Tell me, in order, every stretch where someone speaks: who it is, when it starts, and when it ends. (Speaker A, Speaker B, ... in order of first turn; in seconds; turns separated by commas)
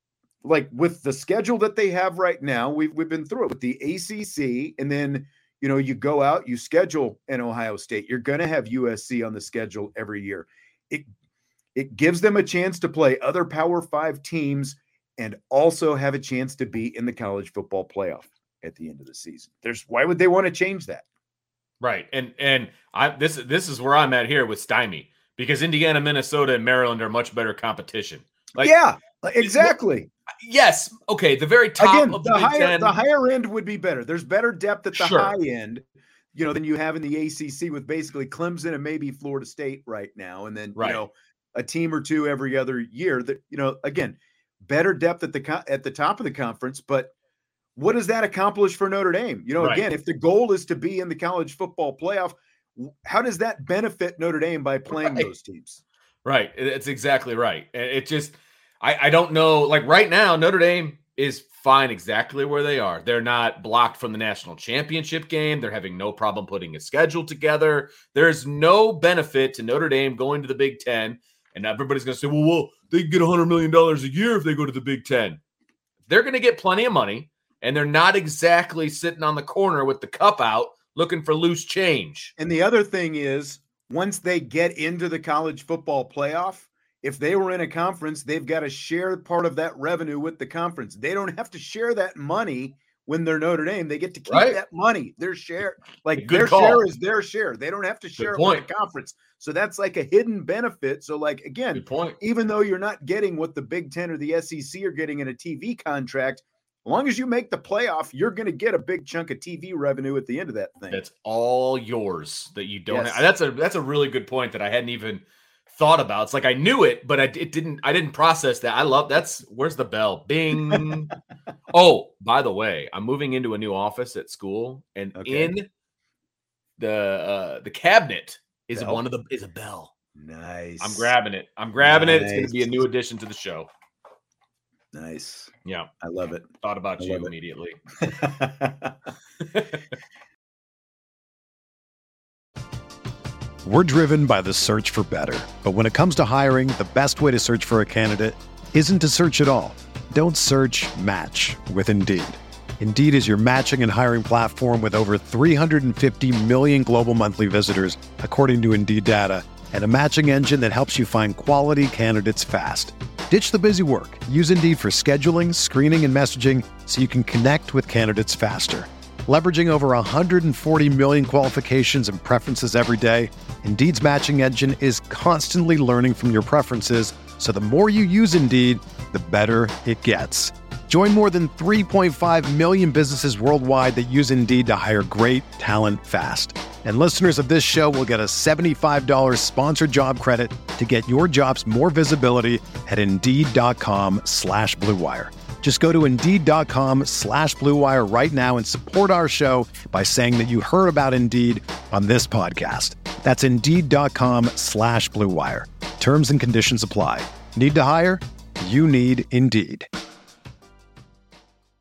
Speaker A: 0.4-11.1, Speaker A: 11.8-21.1, Speaker B: 21.8-28.7, Speaker A: 28.6-30.1, Speaker B: 29.4-29.7, Speaker B: 30.4-33.0, Speaker A: 31.8-47.1, Speaker B: 34.9-35.3, Speaker B: 40.8-41.0, Speaker A: 47.8-55.8, Speaker B: 49.6-49.8, Speaker B: 54.9-55.3, Speaker B: 56.2-75.4, Speaker B: 76.1-82.3, Speaker A: 82.4-111.0, Speaker B: 94.3-94.6, Speaker B: 96.1-96.9, Speaker B: 98.2-98.7, Speaker B: 101.7-102.2, Speaker B: 110.9-121.2, Speaker A: 112.9-113.2, Speaker B: 121.7-125.7, Speaker A: 125.2-125.5, Speaker B: 126.8-129.9, Speaker A: 128.7-129.0, Speaker A: 130.2-131.1, Speaker B: 130.8-133.7, Speaker A: 131.8-132.8, Speaker A: 134.9-137.3, Speaker B: 135.7-135.9, Speaker B: 136.6-137.8, Speaker A: 138.0-139.0, Speaker B: 139.4-139.8, Speaker C: 143.6-209.9